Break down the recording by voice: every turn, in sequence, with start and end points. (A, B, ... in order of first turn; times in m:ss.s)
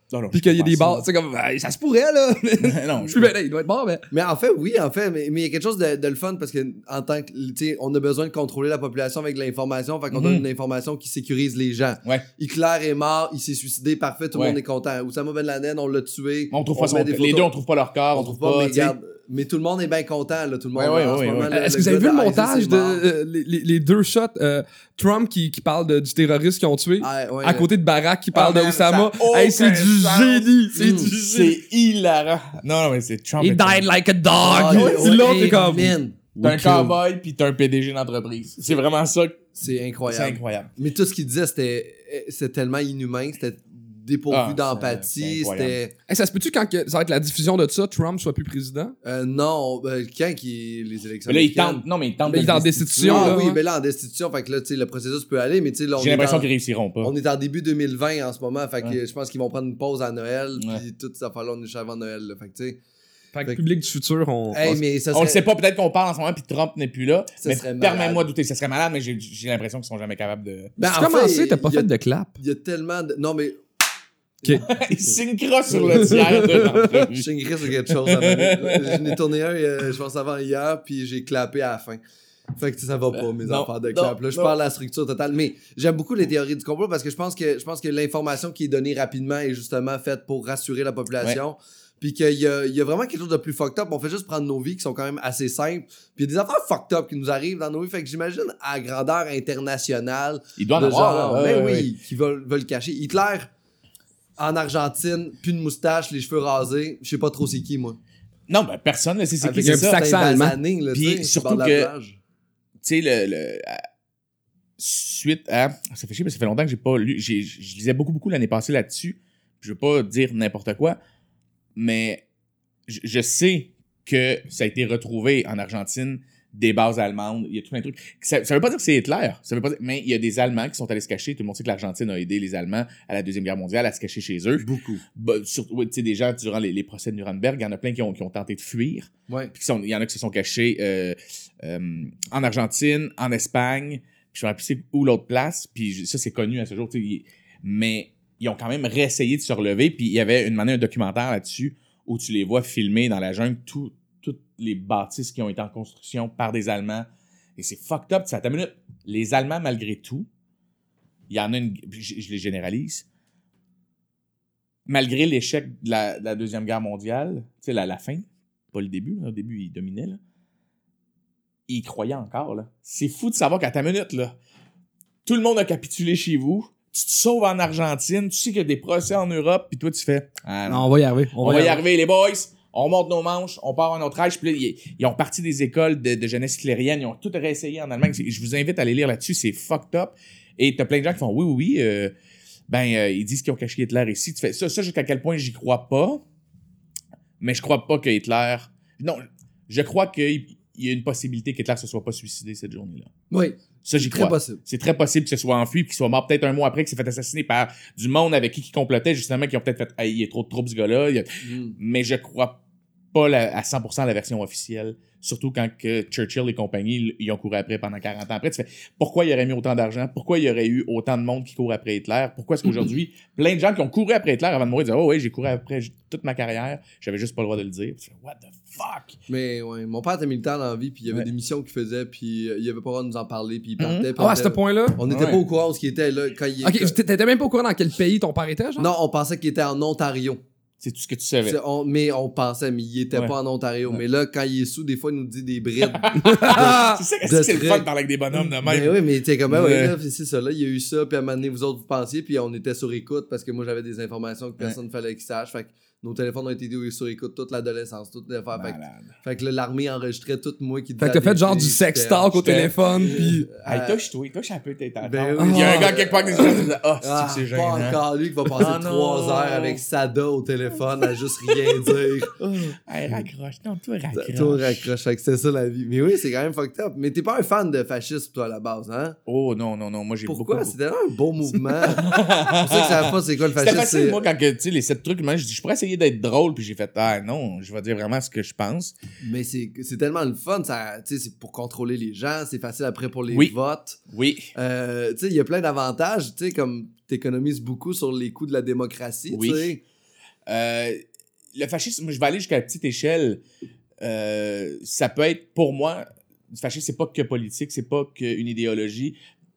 0:00.1-0:01.0 A
0:00.3-0:04.0 B
0:02.6-0:03.3 A
0:04.1-0:17.5 C
0:10.1-0:10.4 A
0:16.5-0:19.0 A
0:18.1-0:23.0 C
0:20.8-0:21.5 A
0:21.5-0:31.6 B
0:27.0-0:27.7 C
0:28.3-0:33.8 A
0:30.8-0:31.1 C
0:33.4-0:36.9 B
0:34.4-0:36.2 C
0:34.7-0:35.0 A
0:36.4-0:39.4 A
0:39.5-0:45.9 C
0:40.1-0:40.7 A
0:44.3-0:45.8 A
0:46.1-0:48.9 B
0:49.0-0:56.5 C
0:51.3-0:53.4 A
0:52.3-0:53.6 B
0:56.0-0:57.1 A
0:57.0-1:02.8 C
1:00.6-1:00.8 A
1:03.3-1:04.8 B
1:04.5-1:05.4 C
1:05.1-1:10.7 A
1:07.4-1:08.3 C
1:10.8-1:11.9 C
1:10.8-1:12.4 B
1:12.4-1:13.6 C
1:14.4-1:15.2 C
1:14.7-1:17.3 A
1:15.7-1:22.0 C
1:16.1-1:16.7 B
1:17.8-1:19.2 A
1:22.6-1:43.5 C
1:23.1-1:24.5 A
1:40.6-1:41.9 A
1:44.4-1:48.0 C
1:48.5-1:50.1 A
1:49.4-1:52.2 C
1:49.6-1:50.6 B
1:50.9-1:51.9 A
1:52.8-1:53.8 A
1:54.8-2:01.0 A
2:01.8-2:02.2 A
2:02.9-2:37.0 A
2:14.6-2:15.0 C
2:37.6-2:40.3 A
2:41.3-2:43.0 A
2:44.9-2:50.2 A
2:51.7-2:54.4 A
2:55.2-3:12.1 A
3:00.7-3:01.8 B
3:12.7-3:16.2 A
3:17.4-3:23.1 A
3:23.3-3:24.6 C
3:23.8-3:32.6 A
3:31.4-3:31.8 C
3:33.1-3:49.2 A
3:49.3-3:56.9 C
3:53.8-3:54.1 A
3:54.2-3:55.0 B
3:55.1-3:55.4 A
3:56.6-3:58.9 B
3:58.8-4:00.4 C
4:00.8-4:01.6 A
4:01.4-4:22.3 C
4:05.8-4:10.0 A
4:06.2-4:07.0 B
4:18.5-4:19.1 A
4:21.0-4:23.5 B
4:22.3-4:28.0 A
4:23.0-4:24.0 C
4:25.0-4:33.2 C
4:25.4-4:25.9 B
4:28.5-4:29.8 A
4:32.9-4:34.9 A
4:34.1-4:39.2 C
4:39.3-4:40.8 A
4:40.2-4:44.2 C
4:41.8-4:48.9 A
4:49.2-4:54.0 C
4:54.1-4:54.5 A
4:54.5-4:59.8 C
4:59.3-4:59.7 A
5:00.4-5:01.0 A
5:01.5-5:03.4 A
5:04.0-5:09.2 A